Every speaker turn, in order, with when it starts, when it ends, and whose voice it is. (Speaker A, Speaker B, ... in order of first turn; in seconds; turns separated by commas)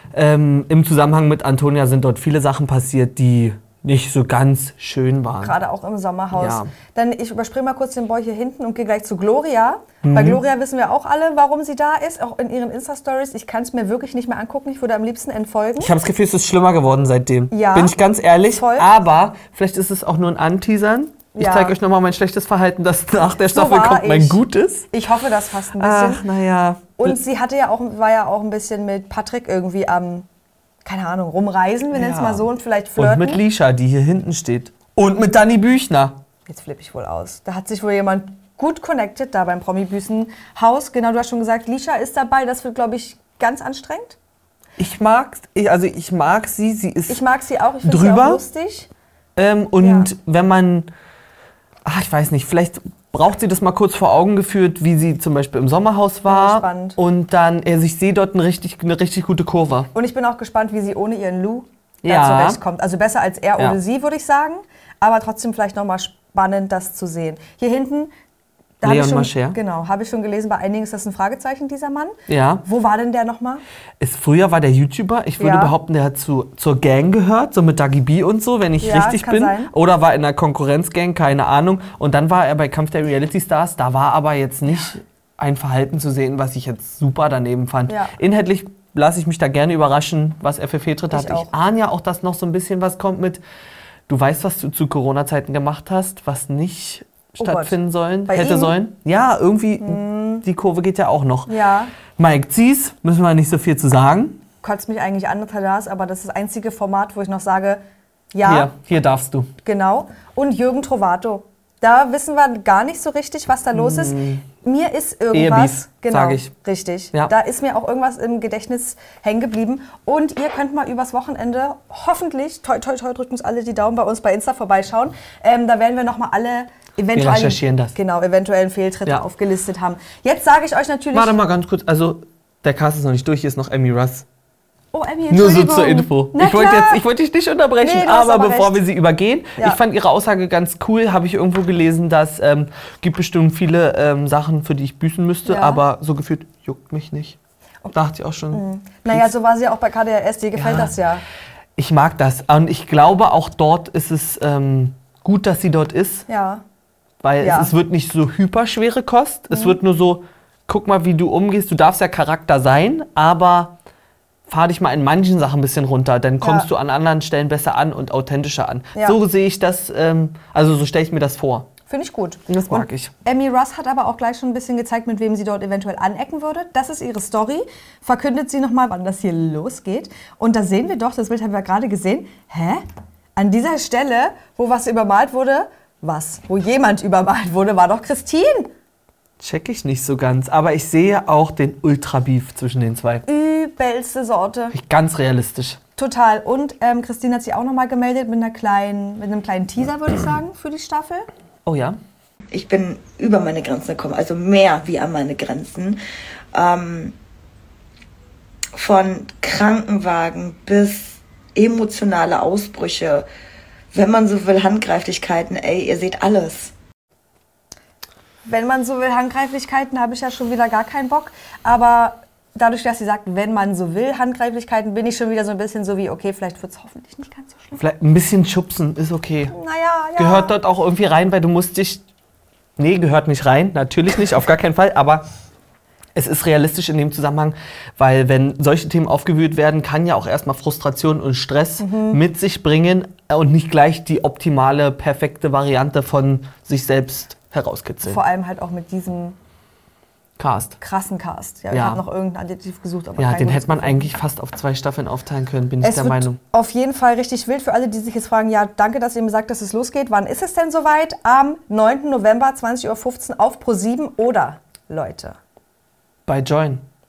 Speaker A: 0.1-5.5, Speaker B: 5.4-15.9, Speaker A: 6.3-6.7, Speaker A: 10.0-10.4, Speaker A: 15.8-24.9, Speaker B: 17.5-17.9, Speaker B: 18.5-18.9, Speaker B: 21.3-21.8, Speaker B: 23.5-26.3, Speaker A: 25.8-27.1, Speaker B: 27.0-30.3, Speaker B: 30.8-33.4, Speaker A: 31.9-36.2, Speaker B: 36.5-44.2, Speaker A: 44.8-47.2, Speaker B: 47.1-48.9, Speaker A: 47.8-48.4, Speaker A: 49.4-50.9, Speaker B: 49.8-50.1, Speaker A: 51.9-59.9, Speaker B: 56.3-57.0, Speaker B: 59.9-68.1, Speaker A: 62.0-62.6, Speaker B: 68.8-73.6, Speaker A: 68.8-69.6, Speaker A: 72.3-72.6, Speaker A: 74.0-93.4, Speaker B: 75.4-75.7, Speaker B: 78.8-79.7, Speaker B: 87.9-88.1, Speaker B: 91.1-91.5, Speaker A: 94.1-101.6, Speaker B: 97.4-97.8, Speaker B: 98.3-98.8, Speaker B: 99.8-100.5, Speaker B: 101.5-101.9, Speaker A: 102.1-104.4, Speaker B: 104.6-107.8, Speaker B: 108.3-108.7, Speaker A: 108.4-109.5, Speaker B: 109.6-131.3, Speaker A: 113.7-114.5, Speaker A: 115.3-116.5, Speaker A: 127.1-127.9, Speaker A: 131.1-134.2, Speaker B: 134.9-137.0, Speaker A: 135.3-147.4, Speaker B: 137.8-138.8, Speaker B: 145.4-145.8, Speaker A: 147.9-149.3, Speaker B: 148.5-151.2, Speaker A: 150.6-150.9, Speaker A: 151.8-156.2, Speaker B: 156.3-156.6, Speaker A: 157.2-163.7, Speaker B: 157.4-157.7, Speaker B: 159.5-159.8, Speaker A: 164.5-171.7, Speaker B: 166.4-166.7, Speaker B: 171.8-182.8, Speaker A: 172.5-173.1, Speaker B: 183.3-188.7, Speaker A: 189.4-193.2, Speaker B: 193.3-194.7, Speaker A: 194.7-195.8, Speaker B: 196.0-201.3, Speaker A: 201.7-202.0, Speaker C: 202.5-206.0, Speaker B: 202.6-203.3, Speaker C: 206.5-207.1, Speaker C: 208.8-213.2, Speaker C: 213.9-216.7, Speaker B: 218.4-227.8, Speaker A: 227.8-229.5, Speaker B: 229.5-230.5, Speaker A: 230.2-232.0, Speaker A: 232.8-235.2, Speaker A: 236.2-248.2, Speaker B: 241.8-242.2, Speaker B: 248.0-249.3, Speaker A: 250.4-250.8, Speaker B: 250.8-254.1, Speaker A: 251.7-252.0, Speaker A: 253.2-256.4, Speaker B: 255.8-265.4, Speaker A: 266.3-266.8